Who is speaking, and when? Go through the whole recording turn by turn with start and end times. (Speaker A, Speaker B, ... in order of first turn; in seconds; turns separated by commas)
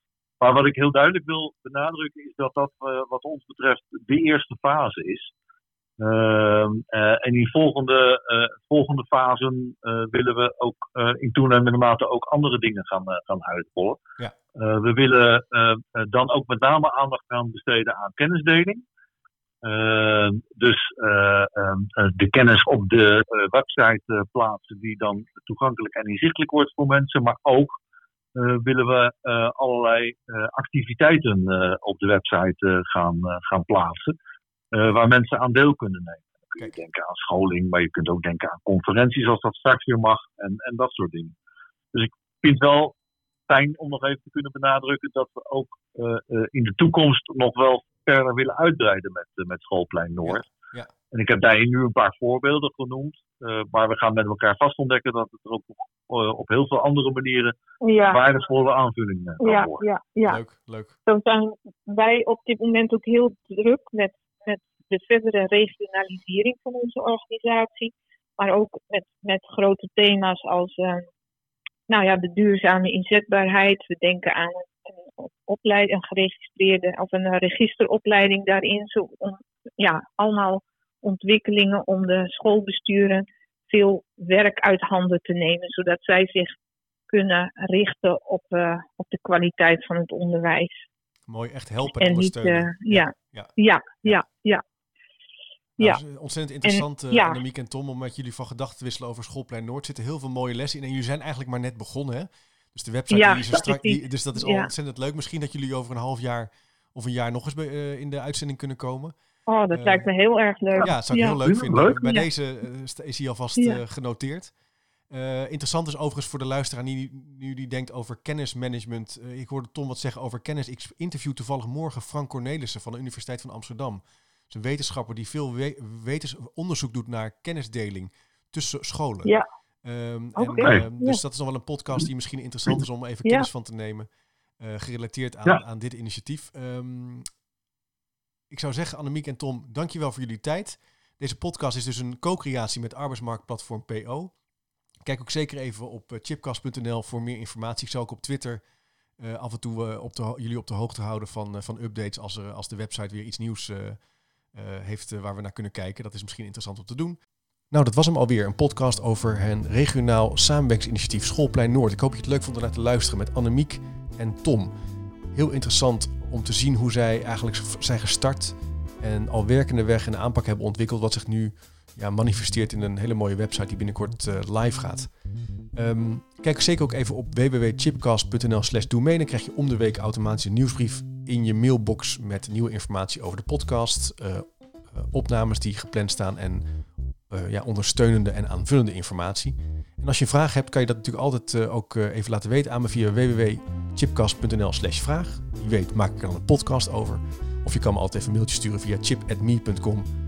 Speaker A: 0.4-5.3, Speaker A: 6.0-14.0, Speaker A: 14.5-18.8, Speaker A: 19.6-27.7, Speaker A: 28.3-34.1, Speaker A: 34.7-41.3, Speaker A: 41.9-42.9, Speaker A: 43.5-50.5, Speaker B: 50.2-50.9, Speaker A: 51.1-59.8, Speaker C: 57.8-58.2, Speaker C: 59.4-60.4, Speaker B: 60.2-61.0, Speaker C: 61.0-71.0, Speaker C: 71.9-86.5, Speaker C: 87.1-90.9, Speaker B: 91.3-93.5, Speaker C: 91.8-94.6, Speaker C: 95.8-96.0, Speaker B: 95.8-109.1, Speaker C: 96.6-97.4, Speaker C: 103.1-104.7, Speaker C: 109.5-111.4, Speaker B: 109.7-110.1, Speaker B: 110.8-114.5, Speaker A: 111.4-112.0, Speaker C: 112.0-112.2, Speaker B: 115.1-129.3, Speaker B: 129.8-134.1, Speaker C: 130.4-131.2, Speaker B: 134.6-137.2, Speaker B: 138.5-144.3, Speaker B: 145.0-148.6, Speaker B: 149.2-154.0, Speaker B: 154.5-164.7, Speaker B: 165.3-175.1, Speaker B: 175.7-186.7, Speaker B: 187.3-200.1